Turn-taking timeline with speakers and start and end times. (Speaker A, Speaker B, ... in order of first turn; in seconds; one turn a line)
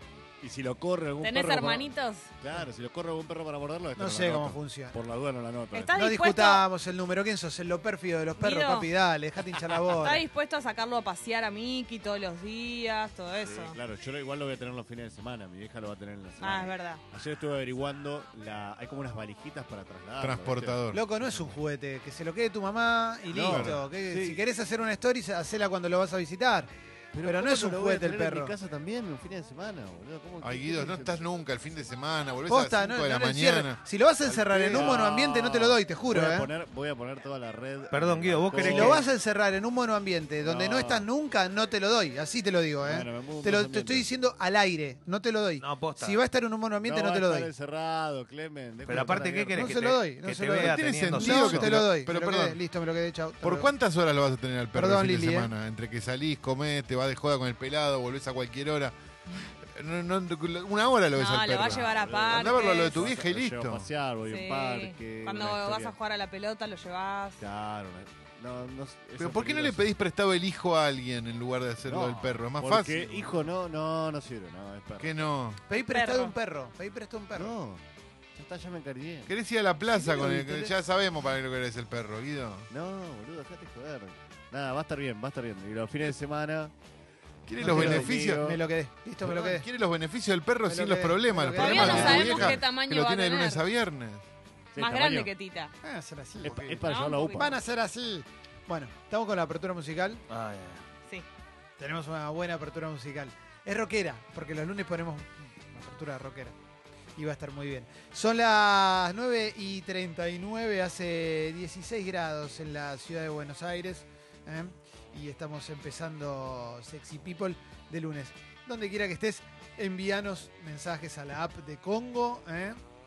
Speaker A: 0.4-6.0
Speaker B: 1.2-2.3
Speaker C: 4.0-5.0
Speaker B: 5.7-6.7
Speaker C: 5.9-10.2
Speaker B: 8.4-8.9
Speaker B: 10.0-13.8
Speaker A: 13.4-20.8
Speaker B: 16.4-17.0
Speaker D: 20.2-21.0
Speaker C: 20.9-26.7
Speaker A: 23.3-24.4
Speaker D: 23.5-23.8
Speaker A: 27.1-31.2
Speaker C: 27.2-28.5
Speaker D: 30.4-33.8
Speaker C: 32.5-36.5
Speaker A: 34.2-39.1
Speaker E: 37.9-39.0
Speaker C: 38.5-47.5
Speaker A: 40.4-41.1
Speaker A: 42.8-44.1
Speaker E: 45.6-46.2
Speaker A: 46.8-49.7
Speaker E: 48.9-51.7
Speaker C: 49.5-53.7
Speaker D: 50.6-52.6
Speaker D: 53.4-58.9
Speaker C: 54.7-55.5
Speaker D: 59.6-63.9
Speaker B: 61.1-63.1
Speaker A: 61.6-66.0
Speaker B: 64.2-67.4
Speaker A: 67.4-69.9
Speaker D: 69.2-73.5
Speaker A: 71.8-75.1
Speaker D: 75.0-75.6
Speaker C: 75.7-77.5
Speaker B: 75.9-76.3
Speaker A: 77.3-77.8
Speaker A: 78.3-79.3
Speaker D: 79.2-82.7
Speaker C: 79.9-80.7
Speaker A: 82.7-86.7
Speaker D: 87.5-88.5
Speaker A: 87.6-88.6
Speaker C: 87.6-89.7
Speaker D: 89.2-94.2
Speaker C: 90.7-92.5
Speaker B: 91.5-93.6
Speaker A: 91.7-92.6
Speaker A: 94.7-95.3
Speaker B: 94.8-95.7
Speaker C: 95.8-100.2
Speaker A: 96.4-97.6
Speaker B: 96.8-97.6
Speaker E: 100.3-100.8
Speaker C: 101.8-106.5
Speaker C: 107.2-122.8